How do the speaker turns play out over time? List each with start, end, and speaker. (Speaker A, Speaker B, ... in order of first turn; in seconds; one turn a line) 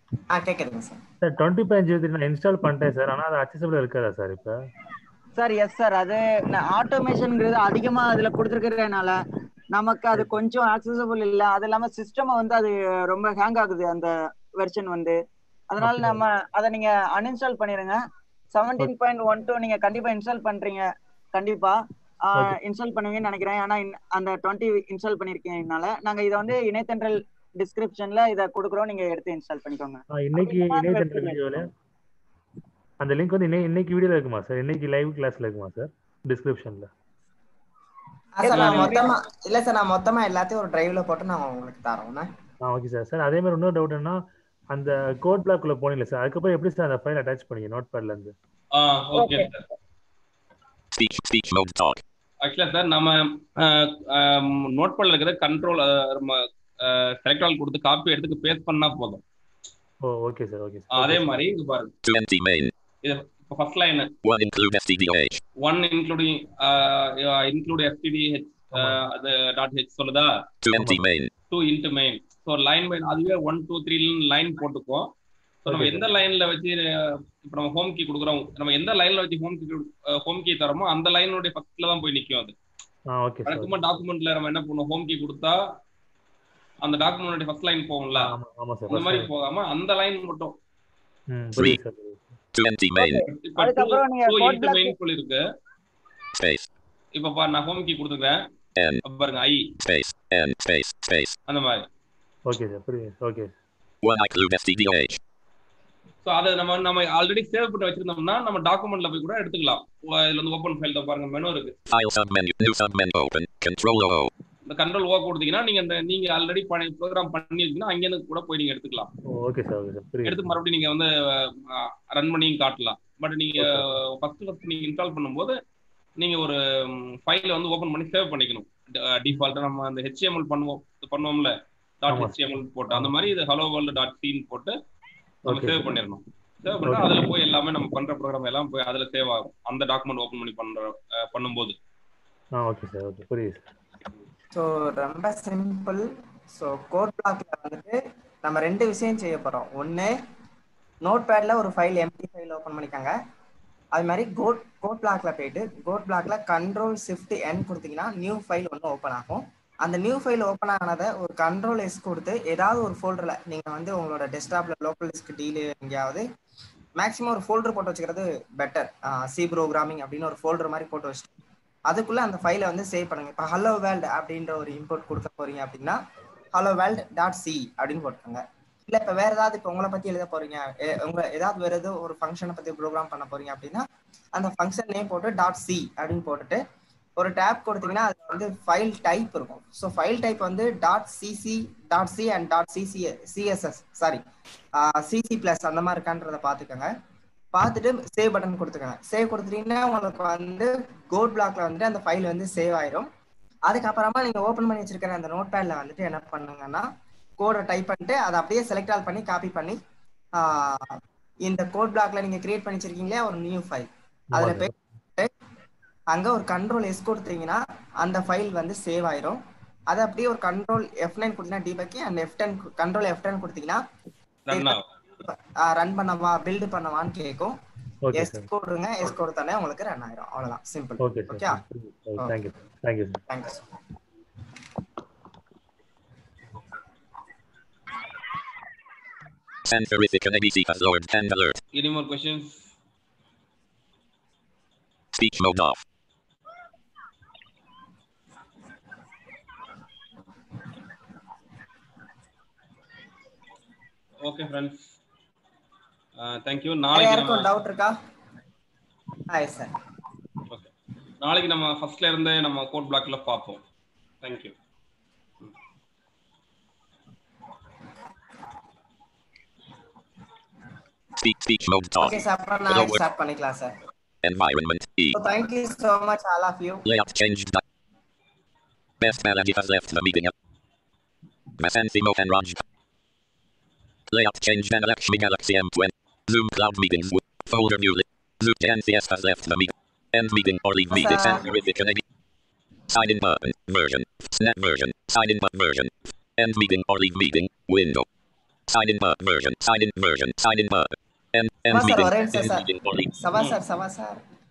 Speaker A: 0.3-1.0
Speaker B: 1.2-4.6
Speaker C: 5.4-9.2
Speaker C: 9.7-15.2
Speaker C: 15.7-18.0
Speaker B: 15.8-16.2
Speaker C: 18.5-31.4
Speaker B: 30.1-31.7
Speaker B: 33.0-36.9
Speaker A: 38.4-42.3
Speaker C: 38.4-39.1
Speaker D: 38.5-39.0
Speaker B: 42.6-48.4
Speaker D: 48.7-49.6
Speaker C: 49.1-49.5
Speaker E: 50.9-52.0
Speaker D: 52.4-59.2
Speaker B: 60.0-61.5
Speaker D: 60.9-61.9
Speaker E: 62.0-62.7
Speaker D: 63.0-64.1
Speaker E: 64.2-65.4
Speaker D: 65.6-70.5
Speaker E: 70.6-71.3
Speaker B: 70.7-71.0
Speaker D: 71.5-75.1
Speaker D: 75.7-82.6
Speaker B: 75.7-76.1
Speaker B: 83.2-83.8
Speaker D: 83.5-85.6
Speaker D: 86.8-88.3
Speaker B: 88.2-89.3
Speaker D: 88.9-90.6
Speaker B: 91.3-92.3
Speaker E: 92.6-93.2
Speaker C: 93.0-95.0
Speaker D: 93.3-95.4
Speaker E: 96.4-96.7
Speaker D: 97.1-98.4
Speaker E: 98.8-99.0
Speaker D: 99.0-99.7
Speaker E: 99.8-101.4
Speaker D: 101.5-101.9
Speaker B: 102.5-103.6
Speaker E: 104.0-105.2
Speaker D: 106.2-111.8
Speaker E: 111.9-114.3
Speaker D: 114.7-119.1
Speaker B: 119.3-120.4
Speaker D: 120.2-125.6
Speaker B: 123.6-123.9
Speaker D: 126.2-134.8
Speaker B: 132.1-133.2
Speaker B: 135.5-135.9
Speaker D: 135.5-141.8
Speaker B: 136.8-137.3
Speaker B: 142.6-143.7
Speaker A: 144.5-150.2
Speaker A: 151.0-153.2
Speaker A: 153.9-166.3
Speaker A: 167.0-171.3
Speaker A: 171.9-176.0
Speaker A: 176.5-186.6
Speaker A: 187.2-194.2
Speaker A: 194.8-196.9
Speaker A: 197.5-203.1
Speaker A: 203.7-209.8
Speaker A: 210.3-215.3
Speaker B: 214.3-214.8
Speaker A: 216.1-223.8
Speaker D: 224.5-224.9
Speaker A: 224.5-227.6
Speaker B: 228.1-228.5
Speaker A: 228.1-231.6
Speaker B: 231.0-233.2
Speaker A: 233.3-233.6
Speaker E: 239.7-241.6
Speaker D: 241.7-242.7
Speaker E: 245.2-245.8
Speaker D: 254.2-254.9
Speaker D: 256.2-257.5
Speaker A: 256.9-257.9
Speaker A: 259.3-259.7
Speaker D: 260.5-263.6
Speaker D: 264.2-264.5
Speaker E: 271.2-273.0
Speaker A: 272.0-273.8
Speaker E: 274.2-275.2
Speaker A: 275.1-276.8
Speaker E: 276.9-277.6
Speaker E: 279.0-280.3
Speaker E: 281.6-282.6
Speaker E: 284.1-292.0
Speaker A: 290.9-291.5
Speaker E: 292.9-298.1
Speaker E: 298.7-303.2
Speaker A: 301.7-304.2